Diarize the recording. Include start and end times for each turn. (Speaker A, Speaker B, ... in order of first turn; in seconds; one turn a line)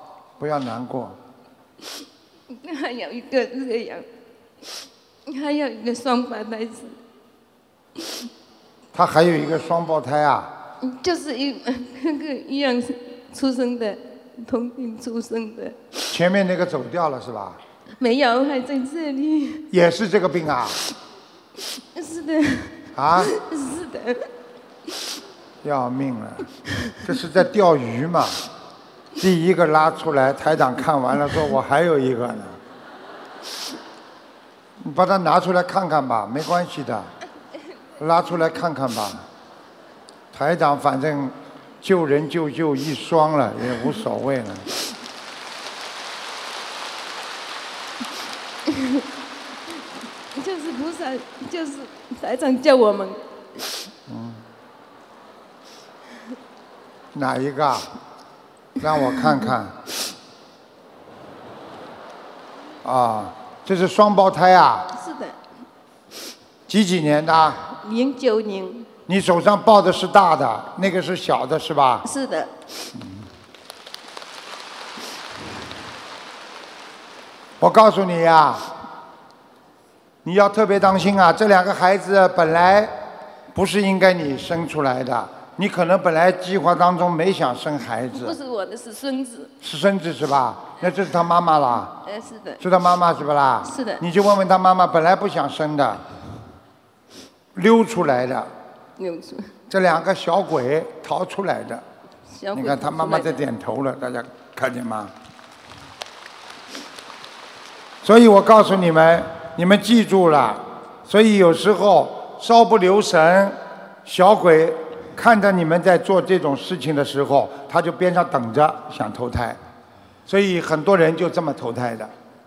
Speaker A: 0.4-1.2
Speaker B: 2.5-4.0
Speaker B: 5.3-7.0
Speaker A: 8.9-10.5
Speaker B: 10.8-16.1
Speaker A: 16.1-17.6
Speaker B: 18.0-19.6
Speaker A: 19.7-20.8
Speaker B: 21.9-24.3
Speaker A: 22.9-23.3
Speaker A: 25.6-26.5
Speaker A: 27.0-28.4
Speaker A: 29.2-32.6
Speaker A: 34.8-37.1
Speaker A: 38.0-39.3
Speaker A: 40.3-44.7
Speaker B: 48.7-49.0
Speaker B: 50.4-53.6
Speaker A: 54.1-54.4
Speaker A: 57.1-57.9
Speaker A: 58.8-59.8
Speaker A: 62.8-64.9
Speaker B: 64.9-65.4
Speaker A: 66.7-67.6
Speaker B: 67.7-68.9
Speaker A: 69.1-72.1
Speaker B: 72.0-72.6
Speaker A: 77.6-78.7
Speaker A: 80.2-83.0
Speaker A: 83.5-88.4
Speaker B: 88.1-89.5
Speaker A: 89.6-91.9
Speaker B: 92.0-92.6
Speaker A: 92.6-96.0
Speaker B: 93.6-94.0
Speaker A: 97.5-98.5
Speaker B: 99.0-99.5
Speaker A: 99.7-101.8
Speaker B: 102.3-103.5
Speaker A: 102.5-105.1
Speaker A: 108.0-119.6
Speaker A: 120.3-122.1